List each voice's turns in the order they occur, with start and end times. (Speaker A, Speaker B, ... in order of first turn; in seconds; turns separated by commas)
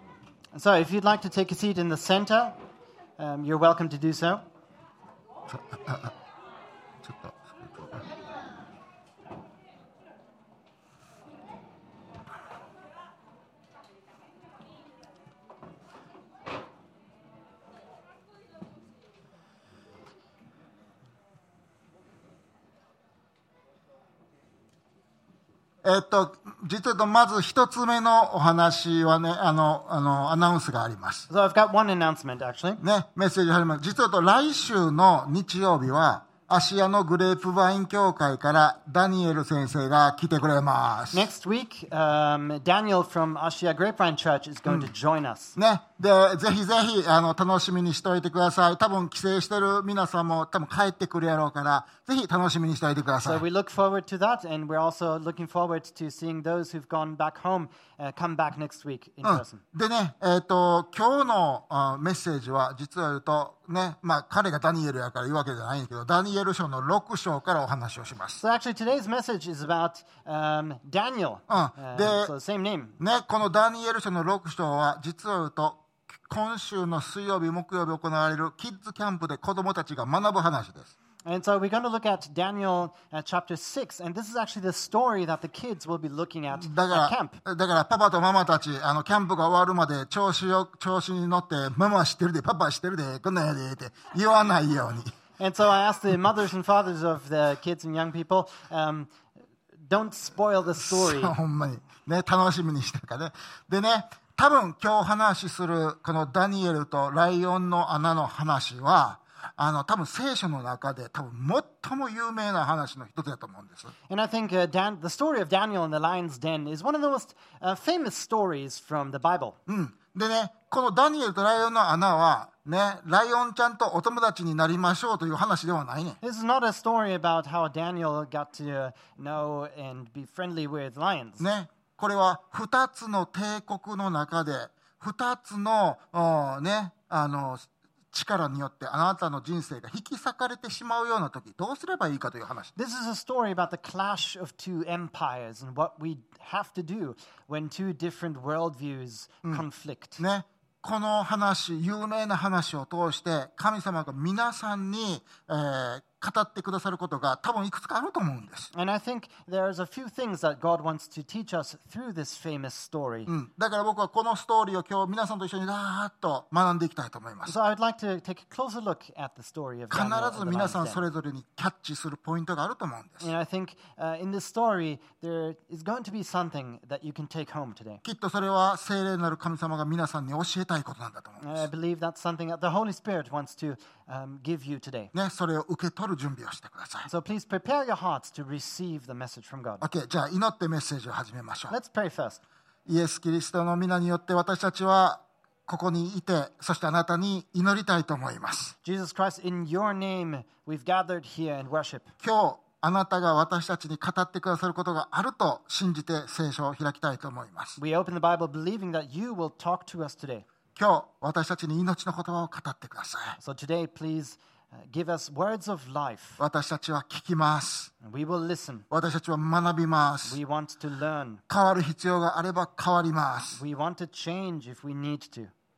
Speaker A: 0.5-2.6, Speaker A: 3.2-4.4, Speaker B: 5.5-6.1, Speaker B: 7.0-8.0, Speaker B: 25.8-31.3, Speaker A: 31.3-32.8, Speaker B: 32.8-41.3, Speaker A: 41.1-45.6, Speaker B: 45.6-53.4, Speaker A: 53.2-59.6, Speaker B: 59.2-68.4, Speaker A: 68.4-73.0, Speaker B: 71.5-72.3, Speaker B: 73.0-80.9, Speaker A: 81.2-87.4, Speaker B: 86.5-95.1, Speaker A: 95.4-99.1, Speaker A: 99.8-101.4, Speaker B: 100.8-113.9, Speaker A: 114.1-119.6, Speaker B: 119.7-126.2, Speaker A: 126.2-131.4, Speaker B: 131.4-142.7, Speaker A: 142.8-150.2, Speaker B: 150.2-158.7, Speaker A: 158.7-163.3, Speaker B: 163.3-167.6, Speaker A: 167.5-171.0, Speaker B: 169.9-173.3, Speaker A: 173.2-178.0, Speaker B: 178.0-181.6, Speaker A: 181.4-185.1, Speaker B: 185.1-187.1, Speaker A: 187.1-189.9, Speaker B: 189.8-191.8, Speaker A: 191.7-192.4, Speaker B: 192.9-198.8, Speaker A: 198.8-202.1, Speaker B: 202.2-207.8, Speaker A: 207.8-210.4, Speaker B: 210.8-213.4, Speaker A: 213.4-216.4, Speaker B: 216.4-217.9, Speaker A: 218.0-218.9, Speaker B: 218.9-220.4, Speaker A: 220.3-221.4, Speaker B: 221.5-223.6, Speaker A: 223.6-225.5